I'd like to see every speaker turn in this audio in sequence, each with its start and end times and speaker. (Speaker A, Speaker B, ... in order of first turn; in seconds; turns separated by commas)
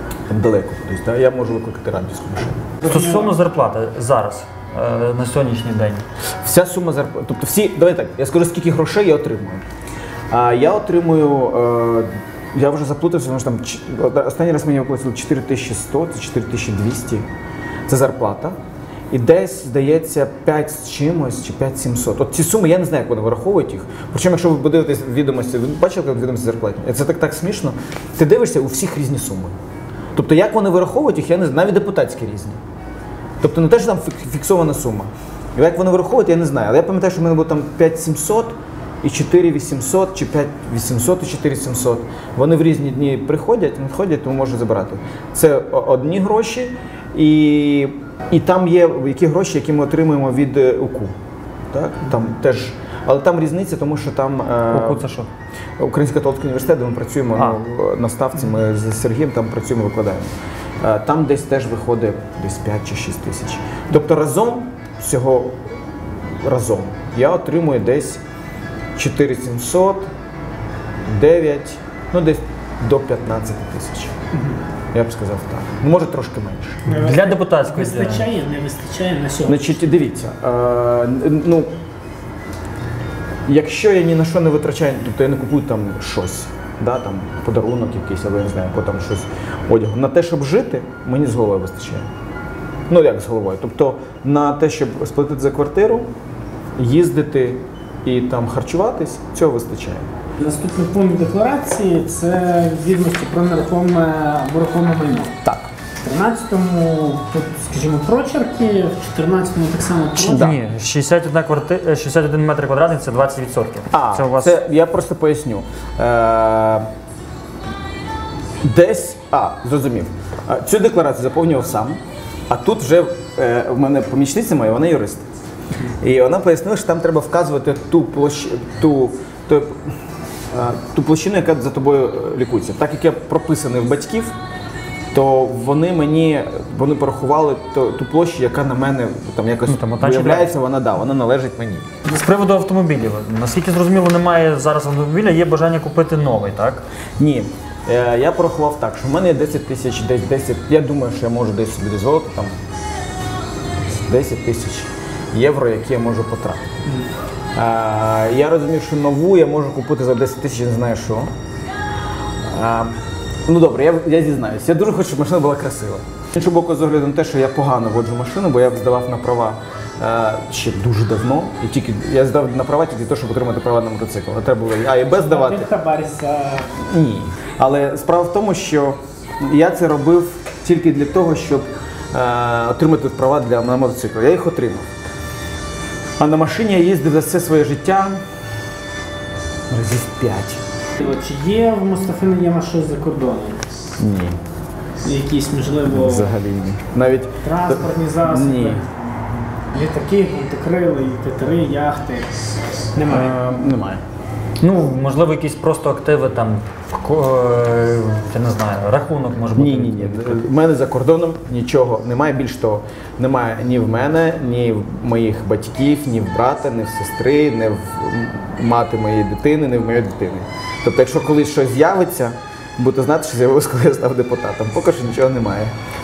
Speaker A: 0.3-2.7, Speaker B: 2.8-6.0, Speaker C: 2.9-3.3, Speaker A: 6.4-9.6, Speaker A: 10.3-17.2, Speaker A: 17.9-18.6, Speaker A: 19.1-29.6, Speaker A: 30.1-32.6, Speaker A: 33.4-51.1, Speaker A: 51.7-55.1, Speaker B: 54.7-55.3, Speaker A: 55.8-60.3, Speaker A: 60.8-65.6, Speaker A: 66.4-68.2, Speaker A: 69.0-70.1, Speaker A: 71.1-74.1, Speaker C: 74.3-74.6, Speaker A: 74.9-76.8, Speaker C: 76.9-79.8, Speaker B: 76.9-78.3, Speaker A: 79.5-81.7, Speaker A: 83.5-92.1, Speaker A: 92.9-96.1, Speaker A: 96.8-100.1, Speaker C: 100.4-105.3, Speaker A: 105.4-105.7, Speaker C: 106.0-110.5, Speaker A: 110.2-110.6, Speaker B: 110.3-114.6, Speaker A: 113.9-116.9, Speaker A: 118.6-122.0, Speaker A: 122.5-125.3, Speaker A: 126.0-129.7, Speaker A: 130.5-134.3, Speaker A: 135.1-141.9, Speaker B: 139.7-140.5, Speaker B: 142.1-146.8, Speaker A: 147.2-152.6, Speaker A: 153.9-156.7, Speaker A: 157.6-161.3, Speaker A: 162.5-175.7, Speaker C: 175.1-176.7, Speaker A: 176.8-184.9, Speaker A: 186.2-188.2, Speaker A: 189.7-190.6, Speaker C: 191.0-193.6, Speaker A: 194.0-194.4, Speaker C: 195.0-196.3, Speaker A: 195.9-198.8, Speaker C: 197.4-198.9, Speaker C: 199.7-202.3, Speaker C: 202.9-203.3, Speaker A: 203.1-204.0, Speaker B: 204.6-210.4, Speaker A: 209.6-225.7